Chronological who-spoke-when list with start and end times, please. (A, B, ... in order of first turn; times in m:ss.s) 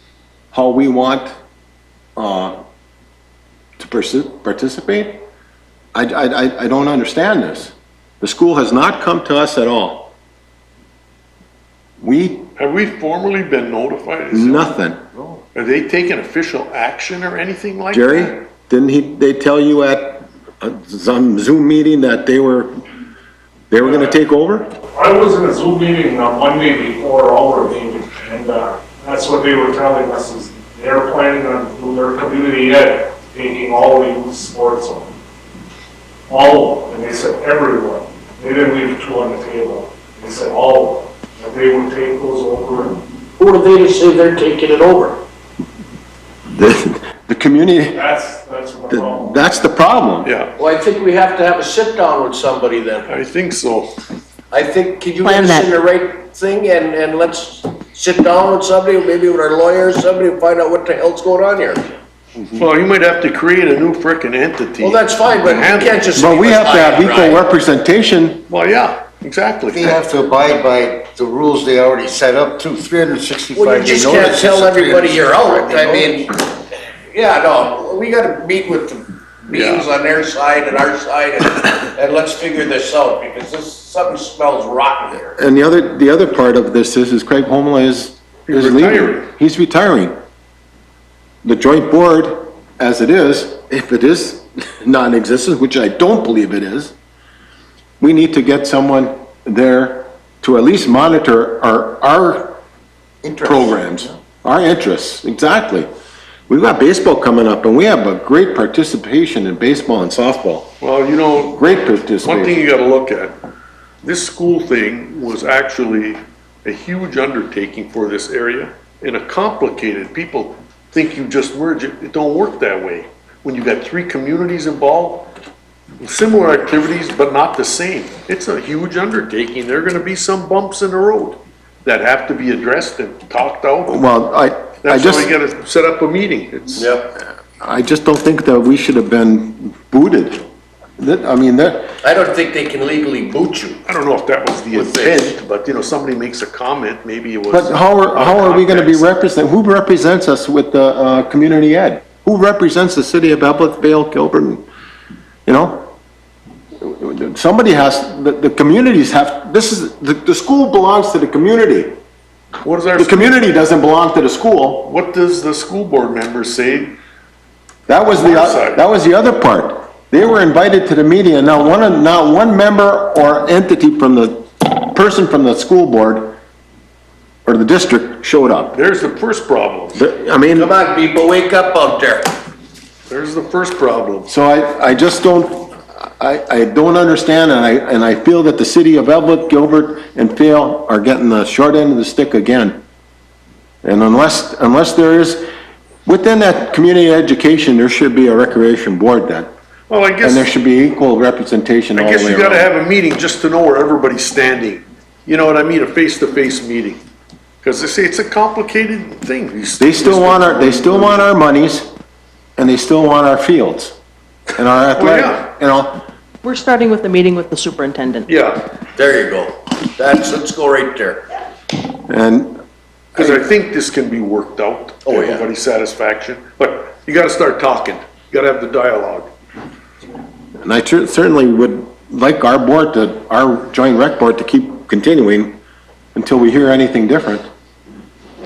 0:00.5-0:01.4 A
0:02.2-0:02.6 A
0:03.8-0:05.2 A
0:05.9-0:10.1 A
0:12.0-0:12.5 A
0:12.6-0:14.7 B
0:14.3-0:15.0 A
0:15.5-0:18.4 B
0:17.9-0:22.7 A
0:23.7-0:24.7 A
0:23.8-0:24.1 C
0:24.9-0:35.1 C
0:36.3-0:43.0 C
0:43.4-0:45.2 D
0:46.5-0:48.0 A
0:47.9-0:49.5 C
0:48.9-0:50.3 A
0:50.2-0:50.5 B
0:50.6-0:53.1 D
0:53.1-0:53.9 B
0:54.5-1:01.9 D
0:55.2-0:55.7 E
1:02.5-1:06.1 B
1:04.8-1:07.4 D
1:06.1-1:08.4 A
1:08.5-1:10.0 B
1:09.7-1:16.3 F
1:13.5-1:16.3 D
1:17.1-1:25.4 D
1:19.5-1:19.9 B
1:25.4-1:30.1 A
1:28.5-1:29.3 B
1:31.4-1:36.9 A
1:38.0-1:42.6 A
1:43.2-1:44.0 F
1:43.4-1:45.9 A
1:46.5-1:50.7 A
1:50.8-1:53.4 B
1:51.5-1:52.6 A
1:54.0-2:05.3 B
2:06.0-2:14.0 B
2:13.9-2:15.3 A
2:14.8-2:16.9 B
2:16.8-2:17.1 D
2:17.6-2:20.4 A
2:21.0-2:21.9 A
2:22.0-2:23.8 D
2:23.8-2:29.1 B
2:24.7-2:25.3 D
2:27.5-2:34.6 A
2:35.4-2:35.9 A
2:36.8-2:41.9 A
2:42.6-2:43.4 B
2:43.0-2:44.9 A
2:44.8-2:47.0 B
2:47.9-2:56.3 A
2:48.1-2:48.8 B
2:57.4-2:58.8 A
2:58.7-3:00.0 B
2:59.9-3:00.7 A
3:00.5-3:02.4 D
3:03.1-3:04.3 B
3:04.3-3:12.8 A
3:13.8-3:15.4 A
3:16.0-3:19.5 A
3:19.9-3:20.5 B
3:20.2-3:22.7 A
3:21.9-3:27.0 B
3:27.6-3:31.3 B
3:29.8-3:31.9 A
3:32.6-3:34.0 A
3:34.6-3:36.0 A
3:35.0-3:35.5 B
3:36.4-3:38.3 E
3:38.3-3:38.7 B
3:38.9-3:41.2 D
3:42.1-3:42.6 A
3:43.1-3:49.3 B
3:45.0-3:45.5 D
3:50.6-3:55.6 A
3:56.1-3:57.5 A